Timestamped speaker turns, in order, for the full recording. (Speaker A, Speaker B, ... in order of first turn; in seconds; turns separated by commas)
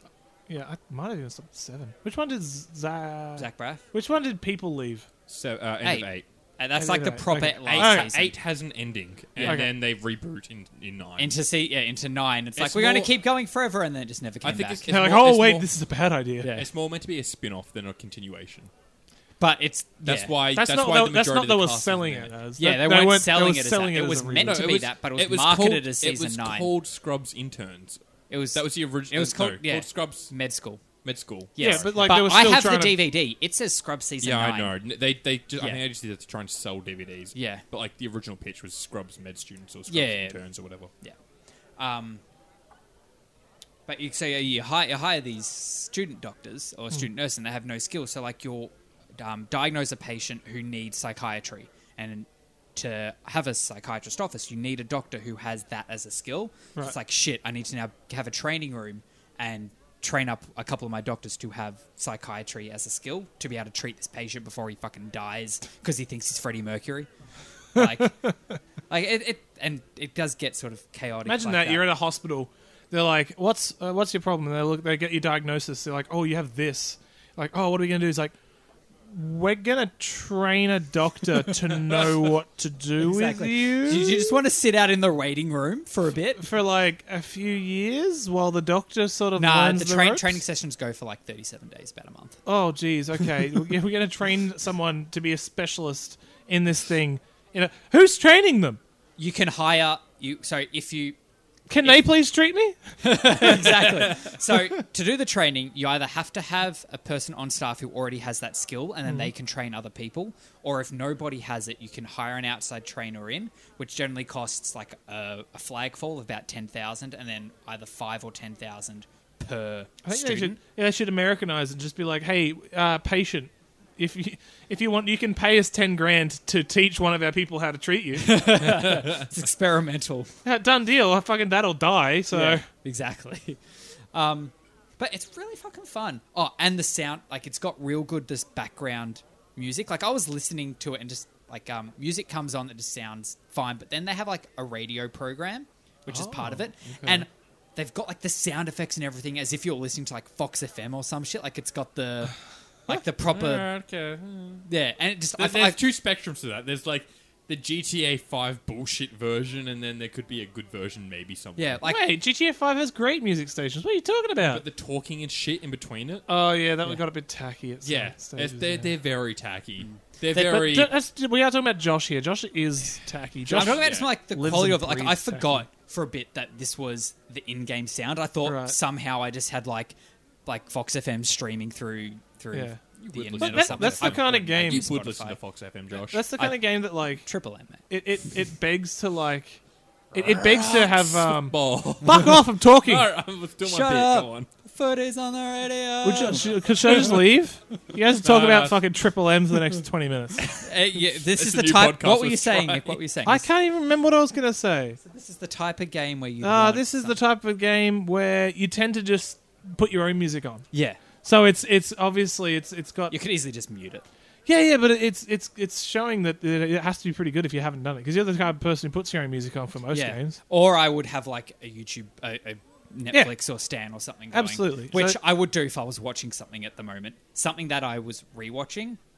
Speaker A: 0.5-5.1, Speaker B: 3.4-3.8, Speaker C: 5.3-6.2, Speaker B: 5.8-8.3, Speaker A: 6.8-8.1, Speaker C: 7.7-11.3, Speaker B: 9.3-9.7, Speaker A: 9.4-9.7, Speaker B: 11.2-14.8, Speaker C: 12.6-13.1, Speaker C: 14.4-15.7, Speaker A: 14.9-16.5, Speaker B: 16.4-16.7, Speaker C: 16.5-18.7, Speaker B: 19.4-20.3, Speaker C: 20.0-22.3, Speaker A: 20.5-24.8, Speaker B: 22.6-26.7, Speaker C: 24.4-28.0, Speaker B: 28.3-30.8, Speaker C: 28.5-30.3, Speaker C: 31.0-32.2, Speaker B: 31.5-34.7, Speaker A: 31.6-33.0, Speaker C: 34.2-40.9, Speaker B: 37.3-37.6, Speaker B: 39.9-40.4, Speaker B: 41.8-42.2, Speaker B: 43.9-67.1, Speaker B: 67.7-68.3, Speaker B: 68.9-71.8, Speaker A: 71.2-78.3, Speaker A: 79.1-84.3, Speaker B: 83.0-86.5, Speaker A: 86.4-90.4, Speaker B: 89.3-92.4, Speaker A: 92.5-98.8, Speaker B: 99.2-101.2, Speaker A: 101.7-104.3, Speaker B: 103.0-120.6, Speaker A: 120.0-128.6, Speaker B: 128.2-130.3, Speaker A: 130.4-132.6, Speaker B: 132.3-133.6, Speaker B: 134.1-152.3, Speaker A: 146.1-146.6, Speaker C: 146.8-147.2, Speaker B: 152.8-153.7, Speaker C: 153.2-154.7, Speaker B: 154.7-155.8, Speaker C: 155.4-161.8, Speaker B: 161.6-162.1, Speaker A: 161.8-164.6, Speaker C: 164.4-166.3, Speaker A: 166.3-168.9, Speaker C: 167.8-170.9, Speaker B: 169.8-170.6, Speaker A: 170.3-175.6, Speaker B: 173.5-179.9, Speaker C: 173.5-174.1, Speaker A: 178.4-178.8, Speaker B: 180.4-185.4, Speaker A: 182.5-182.8, Speaker C: 183.1-186.3, Speaker A: 183.4-184.8, Speaker A: 186.1-187.3, Speaker B: 186.3-187.8, Speaker A: 187.9-189.6, Speaker A: 190.1-193.0, Speaker C: 190.1-194.5, Speaker B: 190.3-190.8, Speaker B: 193.6-197.0, Speaker A: 196.0-200.6, Speaker C: 198.2-198.8, Speaker B: 200.5-203.5, Speaker C: 201.0-203.0, Speaker A: 203.2-205.0, Speaker B: 205.0-207.2, Speaker A: 206.4-210.7, Speaker B: 210.7-211.0, Speaker A: 211.2-213.1, Speaker B: 213.1-214.0, Speaker A: 214.4-220.4, Speaker B: 219.9-229.0, Speaker A: 224.3-225.2